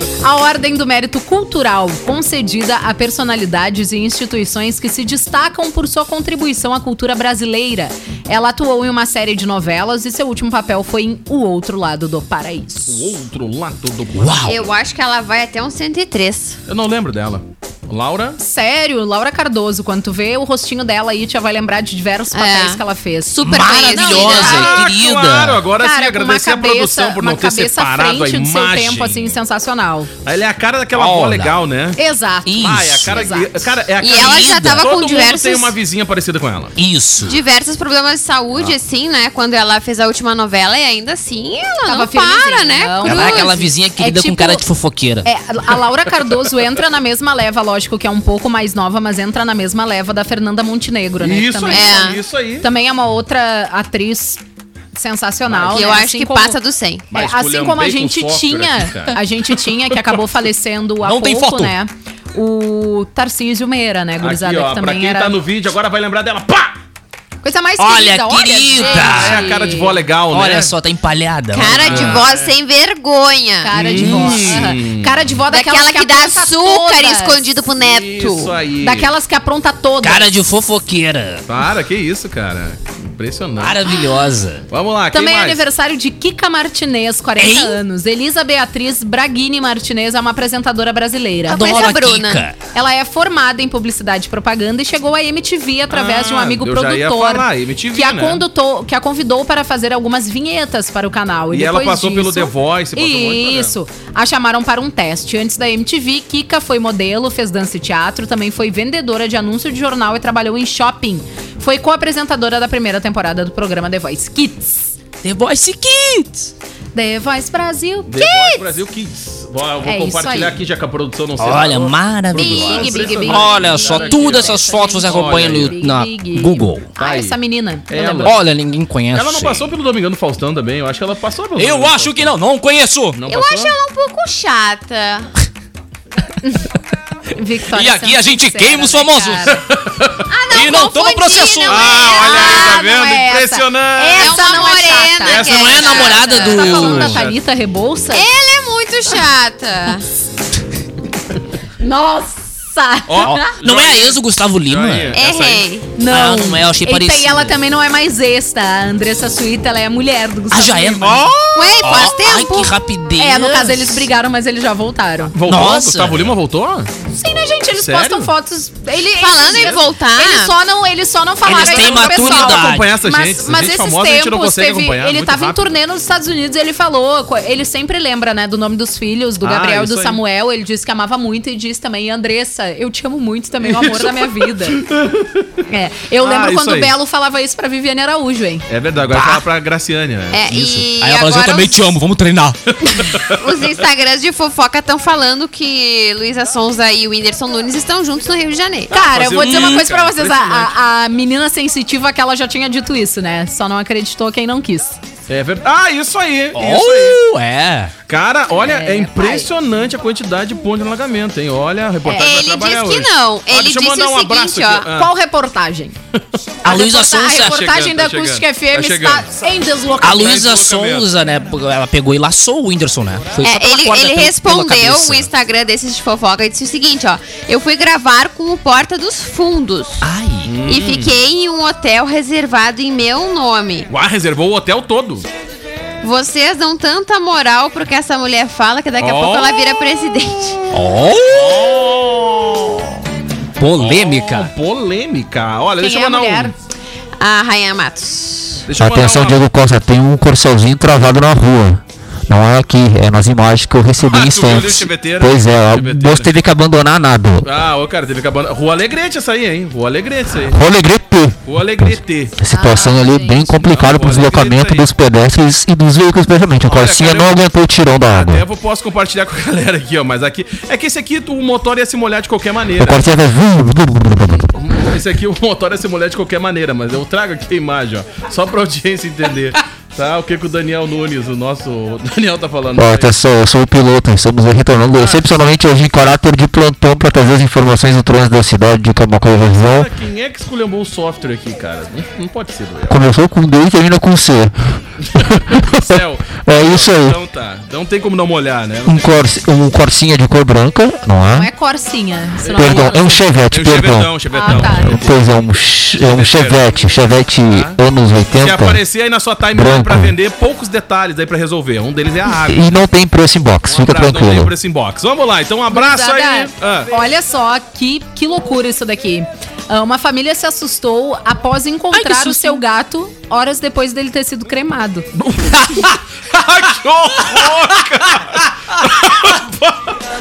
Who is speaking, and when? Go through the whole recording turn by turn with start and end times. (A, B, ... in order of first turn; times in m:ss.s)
0:00.2-0:13.2 A
0:12.9-0:14.6 B
0:14.1-0:14.6 C
0:14.4-0:16.6 D
0:16.7-0:18.4 B
0:18.4-0:24.7 A
0:22.3-0:24.7 D
0:23.4-0:25.7 C
0:24.3-0:29.4 B
0:25.8-0:30.1 A
0:30.2-0:32.0 B
0:30.9-0:31.6 C
0:32.0-0:33.7 A
0:32.5-0:33.2 C
0:32.6-0:36.7 B
0:34.0-0:35.8 D
0:34.1-0:34.9 C
0:36.8-0:37.4 C
0:37.2-0:43.6 D
0:41.9-0:44.6 A
0:43.0-0:45.3 C
0:45.2-0:54.4 A
0:51.2-0:52.7 B
0:51.7-0:52.2 D
0:55.0-0:56.6 A
0:55.5-0:55.8 B
0:55.7-0:57.1 D
0:57.1-0:59.2 B
0:57.1-1:05.4 A
1:01.0-1:01.8 C
1:04.2-1:06.8 B
1:07.4-1:10.0 A
1:07.8-1:09.5 C
1:08.8-1:10.8 B
1:10.3-1:12.3 C
1:11.5-1:13.8 D
1:11.8-1:12.5 B
1:13.6-1:17.5 A
1:13.7-1:15.3 B
1:13.9-1:14.7 C
1:15.5-1:18.6 D
1:17.8-1:19.1 B
1:18.8-1:20.3 A
1:20.0-1:21.5 C
1:21.5-1:23.8 B
1:23.6-1:24.7 C
1:24.7-1:25.6 B
1:25.1-1:31.8 A
1:27.4-1:27.8 C
1:31.5-1:32.5 D
1:31.5-1:32.6 C
1:32.7-1:55.0 A
1:35.9-1:38.4 B
1:41.5-1:43.7 B
1:55.2-1:56.5 C
1:57.0-1:58.7 A
1:58.1-2:05.7 B
1:59.8-2:00.6 A
2:01.4-2:06.9 C
2:02.4-2:08.4 A
2:07.0-2:07.4 B
2:07.9-2:08.4 B
2:08.2-2:09.7 C
2:09.1-2:12.4 B
2:11.6-2:13.2 C
2:13.1-2:13.7 B
2:13.3-2:15.3 D
2:16.4-2:16.7 A
2:17.3-2:19.6 A
2:17.7-2:19.6 C
2:19.5-2:20.3 B
2:20.3-2:22.9 D
2:20.5-2:22.0 C
2:21.7-2:24.7 B
2:22.0-2:28.3 A
2:24.2-2:26.6 D
2:25.3-2:27.4 B
2:25.3-2:27.2 C
2:28.1-2:30.0 D
2:31.8-2:33.6 A
2:33.1-2:35.6 B
2:33.2-2:35.2 C
2:35.1-2:35.9 D
2:36.0-2:41.3 A
2:36.1-2:37.6 C
2:40.5-2:44.1 C
2:41.0-2:41.6 B
2:41.5-2:42.7 D
2:43.2-2:45.3 A
2:45.3-2:46.9 B
2:45.4-2:46.4 C
2:47.1-3:04.8 A
2:47.7-2:48.3 B
2:49.2-2:50.5 D
2:49.5-2:49.8 B
2:51.4-2:53.0 C
2:51.5-2:55.6 B
2:59.4-3:00.2 B
3:03.6-3:05.6 B
3:05.7-3:08.7 A
3:06.2-3:07.0 B
3:08.7-3:10.4 B
3:09.1-3:09.4 C
3:10.3-3:11.9 D
3:10.5-3:12.7 C
3:13.1-3:13.4 B
3:13.1-3:18.9 D
3:18.9-3:20.7 B
3:18.9-3:25.0 A
3:19.4-3:19.8 C
3:25.3-3:27.2 B
3:26.5-3:27.9 C
3:28.1-3:35.1 B
3:28.6-3:29.5 A
3:32.0-3:32.3 A
3:32.2-3:34.9 D
3:34.9-3:36.0 A
3:36.6-3:37.7 C
3:36.6-3:40.5 A
3:37.4-3:41.1 B
3:40.0-3:45.3 C
3:43.4-3:50.1 D
3:50.0-3:50.6 C
3:50.4-3:51.2 B
3:50.7-3:53.9 D
3:53.9-3:55.3 B
3:56.0-4:00.7 D
3:59.0-3:59.6 B
4:00.7-4:01.8 C
4:01.3-4:03.0 B
4:03.6-4:04.5 C
4:03.8-4:06.5 B
4:05.8-4:06.5 A
4:07.2-4:08.7 D
4:08.7-4:09.4 B
4:08.8-4:17.5 E
4:14.1-4:16.4 B
4:17.4-4:20.6 B
4:20.5-4:28.4 E
4:21.5-4:22.4 B
4:22.5-4:23.5 A
4:23.5-4:24.9 B
4:26.7-4:27.5 B
4:28.0-4:33.1 B
4:32.8-4:34.5 E
4:34.6-4:43.1 B
4:42.8-4:49.9 E
4:45.0-4:45.2 B
4:49.6-4:53.0 B
4:52.9-4:54.6 E
4:55.4-4:57.2 E
4:55.5-4:59.3 B
4:58.9-5:01.5 E
5:01.3-5:03.2 A
5:02.4-5:06.9 B
5:02.6-5:08.8 E
5:04.3-5:05.0 A
5:07.5-5:07.8 B
5:08.4-5:12.7 B
5:09.5-5:10.1 E
5:12.4-5:14.5 E
5:13.7-5:16.9 B
5:15.7-5:25.1 A
5:21.9-5:22.6 C
5:25.2-5:30.0 B
5:25.5-5:25.9 C